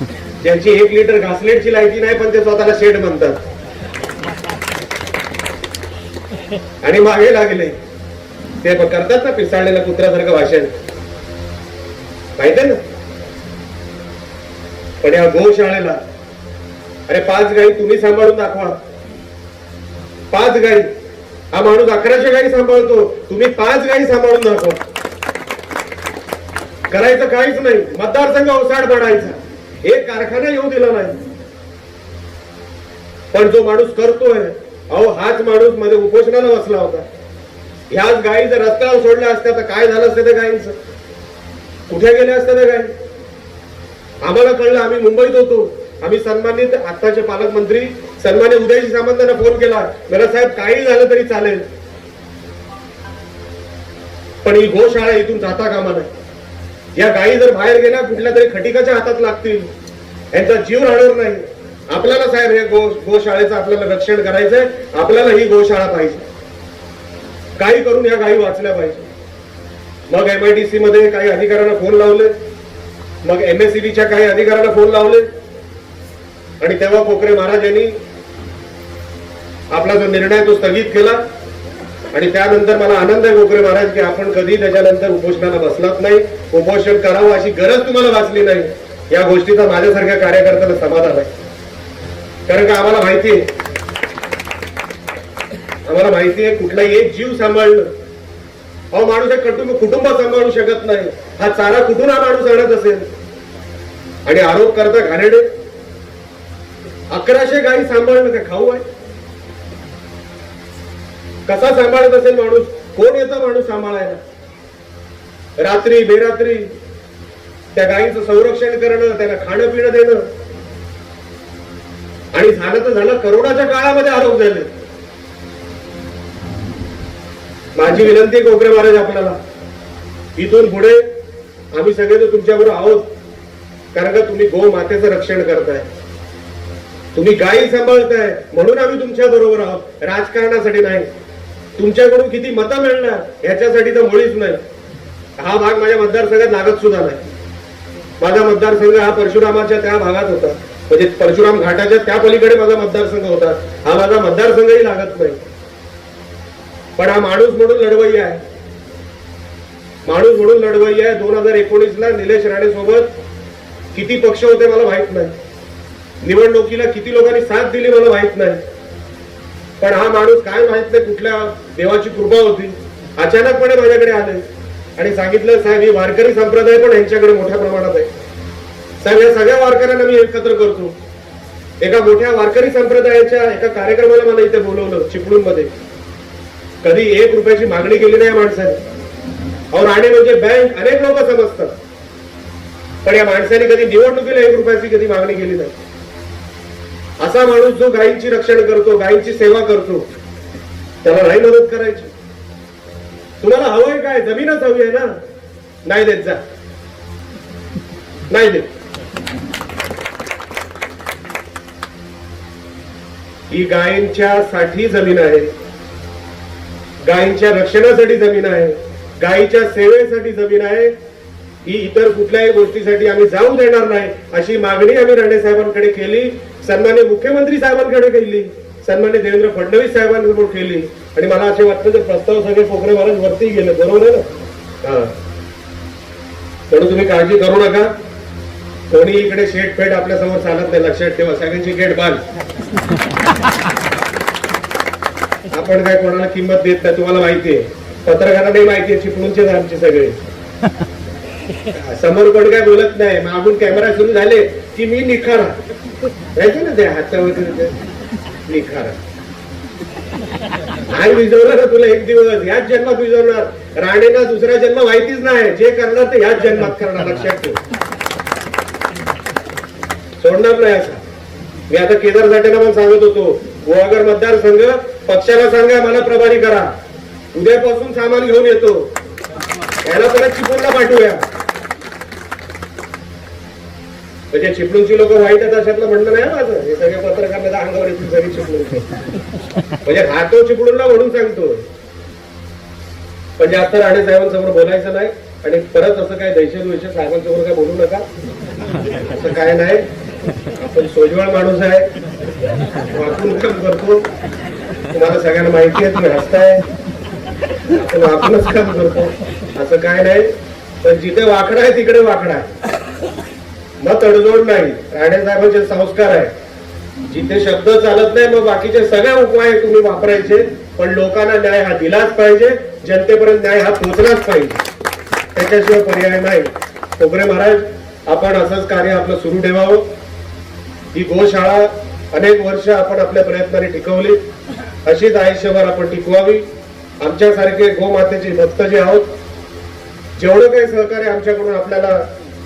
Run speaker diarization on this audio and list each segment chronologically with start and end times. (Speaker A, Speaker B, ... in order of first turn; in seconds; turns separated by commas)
Speaker A: 0.4-3.4, Speaker A: 6.8-7.8, Speaker A: 8.6-10.8, Speaker A: 12.4-12.8, Speaker A: 15.0-16.0, Speaker A: 17.1-18.8, Speaker A: 20.3-20.9, Speaker A: 21.5-24.8, Speaker A: 26.9-31.2, Speaker A: 33.3-37.0, Speaker A: 37.9-40.7, Speaker A: 41.9-42.9, Speaker A: 44.2-51.6, Speaker A: 54.4-56.1, Speaker A: 57.0-59.7, Speaker A: 60.3-66.2, Speaker A: 67.6-69.0, Speaker A: 70.1-72.3, Speaker A: 73.2-75.3, Speaker A: 76.6-77.9, Speaker A: 79.7-81.2, Speaker A: 82.1-91.3, Speaker A: 92.5-93.4, Speaker A: 95.8-97.9, Speaker A: 98.9-103.0, Speaker A: 104.3-105.5, Speaker A: 107.1-108.8, Speaker A: 111.5-114.2, Speaker A: 115.6-116.7, Speaker A: 117.7-120.3, Speaker A: 122.3-124.7, Speaker A: 127.8-129.4, Speaker A: 130.3-131.1, Speaker A: 131.7-133.1, Speaker A: 133.9-135.8, Speaker A: 137.1-141.1, Speaker A: 141.8-144.6, Speaker A: 145.4-147.2, Speaker A: 148.2-155.4, Speaker A: 157.0-158.4, Speaker A: 160.1-163.1, Speaker A: 163.9-165.3, Speaker A: 166.2-168.6, Speaker A: 169.8-174.4, Speaker A: 175.0-178.1, Speaker A: 179.0-180.9, Speaker A: 181.8-185.7, Speaker A: 186.8-188.8, Speaker A: 189.7-191.7, Speaker A: 193.0-195.7, Speaker A: 197.2-200.0, Speaker A: 201.0-202.1, Speaker A: 203.4-205.1, Speaker A: 205.8-206.4, Speaker A: 208.3-208.7, Speaker A: 213.5-215.5, Speaker A: 217.0-220.9, Speaker A: 221.7-234.3, Speaker A: 234.8-235.2, Speaker A: 236.7-237.9, Speaker A: 238.9-242.2, Speaker A: 245.5-250.2, Speaker A: 251.7-255.6, Speaker A: 256.4-257.8, Speaker A: 258.5-259.0, Speaker A: 260.9-267.6, Speaker A: 270.2-271.0, Speaker A: 271.7-276.7, Speaker A: 277.3-278.9, Speaker A: 279.9-281.2, Speaker A: 284.3-288.8, Speaker A: 289.8-291.6, Speaker A: 293.4-298.0, Speaker A: 299.1-299.9, Speaker A: 300.6-301.9, Speaker A: 302.9-304.1, Speaker A: 304.9-306.6, Speaker A: 307.7-310.3, Speaker A: 310.8-312.5, Speaker A: 313.8-316.3, Speaker A: 317.1-324.6, Speaker A: 325.3-329.9, Speaker A: 330.9-334.2, Speaker A: 334.9-336.5, Speaker A: 337.0-339.1, Speaker A: 340.2-342.1